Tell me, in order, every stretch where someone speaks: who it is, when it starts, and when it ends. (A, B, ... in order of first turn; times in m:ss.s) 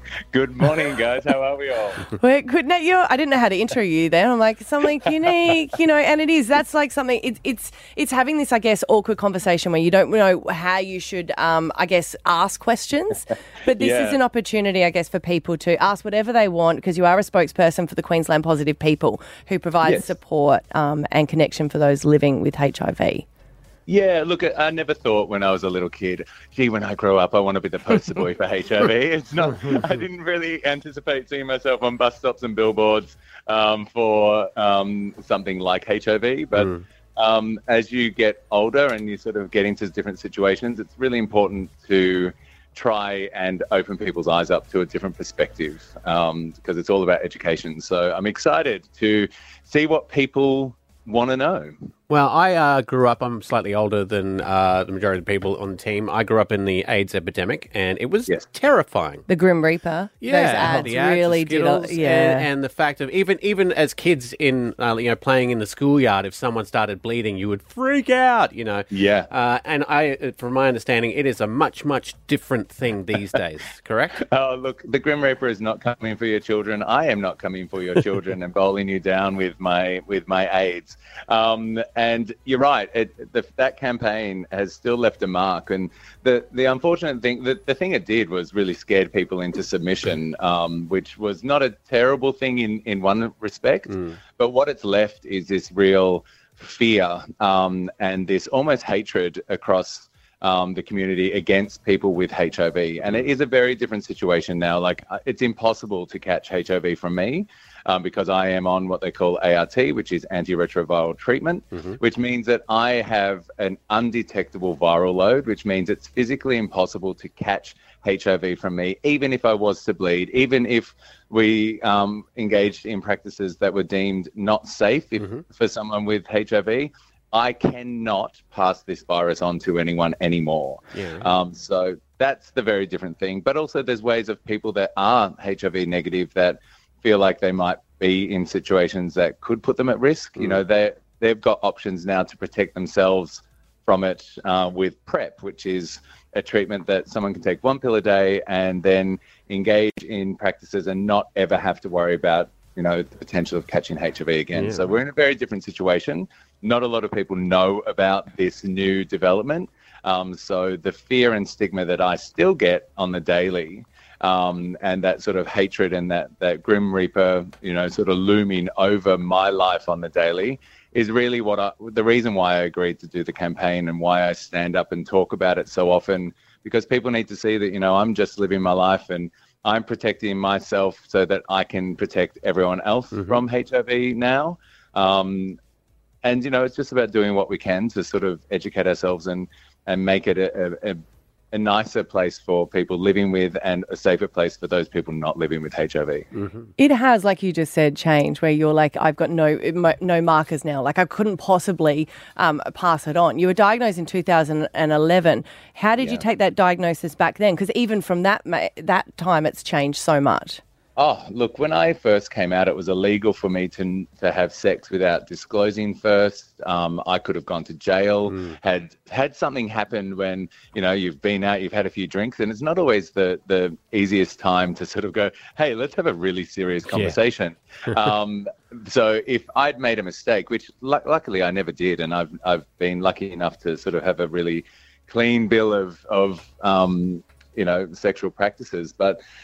0:00.3-0:02.0 A
0:02.2-0:23.2 B
0:13.8-0:14.2 A
0:19.8-0:20.1 A
0:23.9-0:51.8 A
0:36.6-0:36.8 C
0:52.1-0:59.2 C
0:59.3-1:02.5 B
1:00.2-1:14.2 C
1:08.9-1:09.3 A
1:14.1-3:05.6 A
1:33.9-1:34.2 C
1:43.0-1:43.3 C
2:05.2-2:05.4 C
2:10.9-2:11.3 C
2:34.6-2:35.0 C
3:03.2-3:03.4 C
3:06.2-3:11.0 A
3:11.5-3:16.3 A
3:16.4-3:16.7 C
3:16.8-3:30.6 B
3:31.0-3:59.2 A
3:46.9-3:47.2 C